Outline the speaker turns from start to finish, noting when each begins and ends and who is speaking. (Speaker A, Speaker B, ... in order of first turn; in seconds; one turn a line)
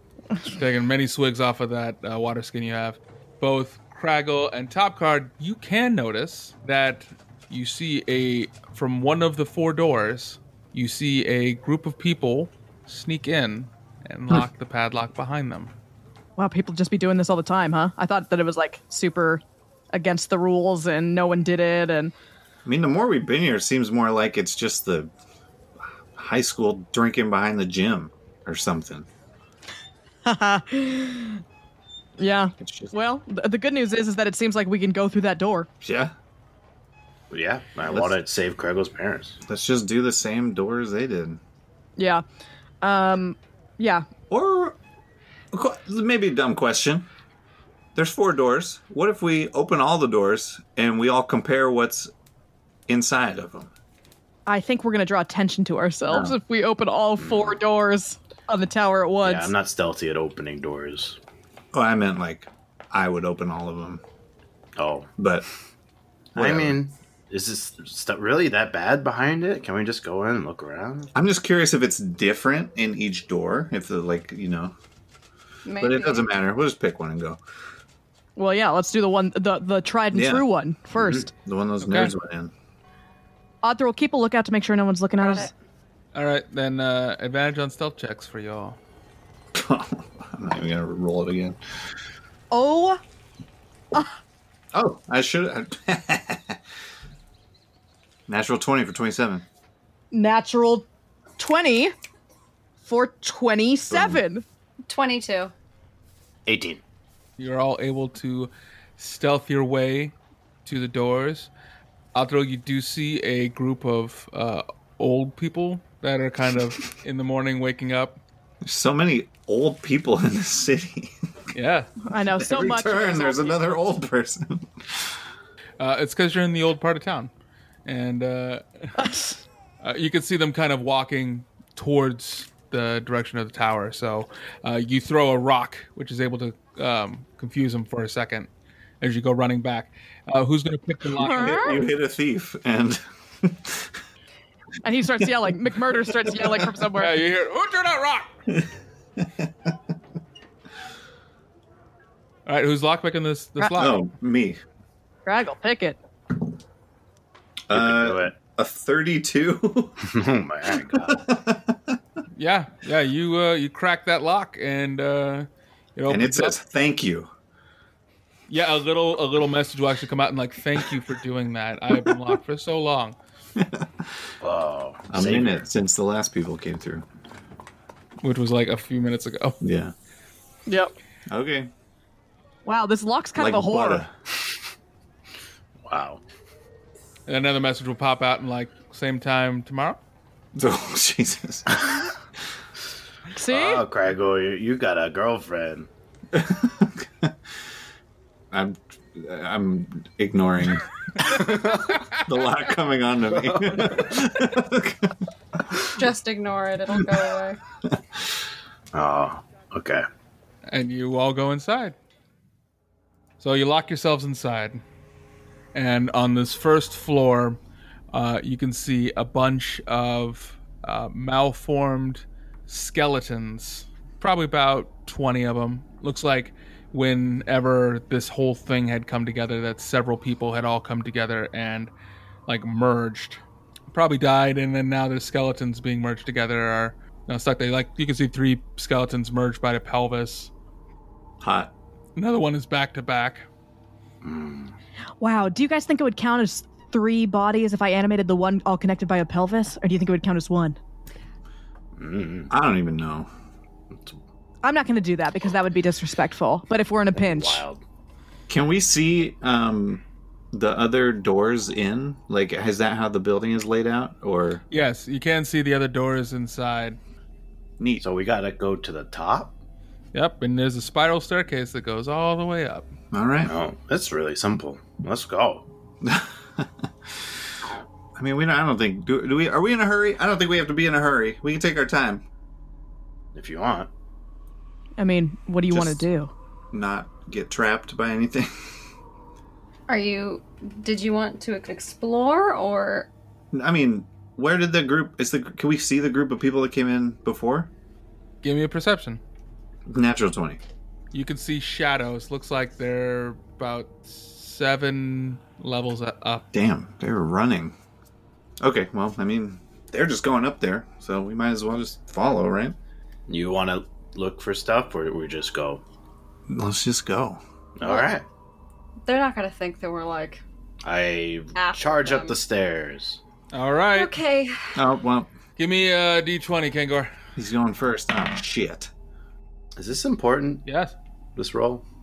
Speaker A: 0.6-15.7
Speaker B: 16.4-22.1
Speaker C: 22.6-25.1
Speaker C: 26.1-29.1
Speaker B: 30.2-31.4
Speaker B: 32.2-35.7
Speaker C: 32.6-32.9
Speaker C: 35.8-36.1
Speaker D: 37.3-39.4
Speaker C: 37.9-38.1
Speaker C: 39.5-41.4
Speaker B: 42.0-42.2
Speaker B: 42.8-44.1
Speaker C: 44.3-44.8
Speaker C: 45.5-47.1
Speaker C: 47.9-52.1
Speaker C: 52.9-53.7
Speaker B: 54.5-59.5
Speaker C: 56.1-56.4
Speaker D: 57.2-57.6
Speaker D: 59.2-61.2
Speaker C: 61.7-64.0
Speaker D: 64.8-65.1
Speaker C: 65.2-65.4
Speaker D: 66.3-71.1
Speaker C: 66.4-66.8
Speaker C: 71.1-74.7
Speaker E: 75.6-76.3
Speaker C: 75.8-77.4
Speaker B: 78.4-81.3
Speaker C: 80.1-80.5
Speaker C: 81.2-82.5
Speaker A: 81.8-82.1
Speaker B: 83.6-85.5
Speaker E: 85.2-85.5
Speaker A: 86.1-88.8
Speaker C: 89.5-91.6
Speaker B: 92.5-93.0
Speaker C: 94.7-96.6
Speaker C: 98.3-99.4
Speaker B: 100.1-100.9
Speaker B: 101.4-101.9
Speaker B: 102.8-104.4
Speaker C: 103.9-104.2
Speaker E: 104.9-105.5
Speaker D: 106.5-106.8
Speaker A: 107.4-111.5
Speaker A: 112.1-118.2
Speaker C: 118.6-121.1
Speaker A: 121.5-121.9
Speaker B: 122.1-123.7
Speaker C: 122.4-124.9
Speaker A: 125.8-127.3
Speaker A: 127.9-128.9
Speaker B: 129.0-129.4
Speaker A: 129.8-138.5
Speaker A: 139.0-141.7
Speaker B: 141.2-141.8
Speaker C: 141.2-143.9
Speaker B: 144.8-147.2
Speaker C: 145.9-146.6
Speaker A: 147.0-148.3
Speaker C: 148.5-149.5
Speaker A: 152.5-154.1
Speaker C: 153.8-154.6
Speaker B: 155.3-156.0
Speaker D: 157.7-158.4
Speaker C: 157.7-160.0
Speaker D: 160.1-161.2
Speaker C: 161.0-162.0
Speaker A: 162.4-166.6
Speaker C: 166.1-167.3
Speaker A: 168.5-173.2
Speaker C: 173.6-174.1
Speaker D: 174.4-175.6
Speaker C: 175.1-177.1
Speaker A: 178.2-179.6
Speaker C: 179.6-179.9
Speaker B: 180.7-180.9
Speaker C: 181.3-181.7
Speaker B: 182.6-184.1
Speaker C: 183.4-184.1
Speaker D: 185.8-186.2
Speaker A: 187.3-190.0
Speaker C: 190.5-191.9
Speaker B: 193.3-193.8
Speaker D: 193.5-195.9
Speaker C: 196.3-197.3
Speaker C: 198.5-205.1
Speaker D: 203.4-204.0
Speaker E: 206.0-207.6
Speaker D: 208.9-210.1
Speaker A: 210.7-212.0
Speaker A: 213.4-214.8
Speaker A: 215.7-217.6
Speaker A: 218.1-231.9
Speaker A: 232.5-233.4
Speaker A: 233.9-240.5
Speaker C: 241.4-241.7
Speaker A: 242.2-243.5
Speaker D: 244.2-244.8
Speaker B: 245.2-250.8
Speaker D: 252.0-252.5
Speaker C: 252.5-253.3
Speaker D: 253.9-254.2
Speaker B: 254.6-257.6
Speaker D: 257.1-257.8
Speaker C: 258.5-264.6
Speaker A: 264.7-267.0
Speaker C: 267.8-268.0
Speaker D: 268.0-269.5
Speaker A: 270.1-272.9
Speaker C: 273.1-273.5
Speaker D: 273.4-275.7
Speaker C: 276.0-276.7
Speaker C: 278.1-282.2
Speaker D: 283.4-283.9
Speaker B: 285.0-286.3
Speaker C: 285.7-286.1
Speaker C: 286.7-288.5
Speaker E: 289.9-293.1
Speaker C: 293.5-297.7
Speaker A: 298.4-299.2
Speaker C: 299.9-300.6
Speaker A: 301.1-306.5
Speaker C: 306.5-307.8
Speaker C: 308.6-312.8
Speaker D: 313.3-315.8
Speaker C: 316.5-317.4
Speaker D: 317.8-318.2
Speaker E: 319.1-320.4
Speaker D: 320.8-323.2
Speaker E: 321.6-322.4
Speaker A: 323.5-324.1
Speaker E: 323.9-324.8
Speaker C: 324.8-325.3
Speaker A: 325.6-327.1
Speaker C: 327.4-328.9
Speaker D: 329.8-330.7
Speaker A: 330.6-330.9
Speaker D: 331.4-331.8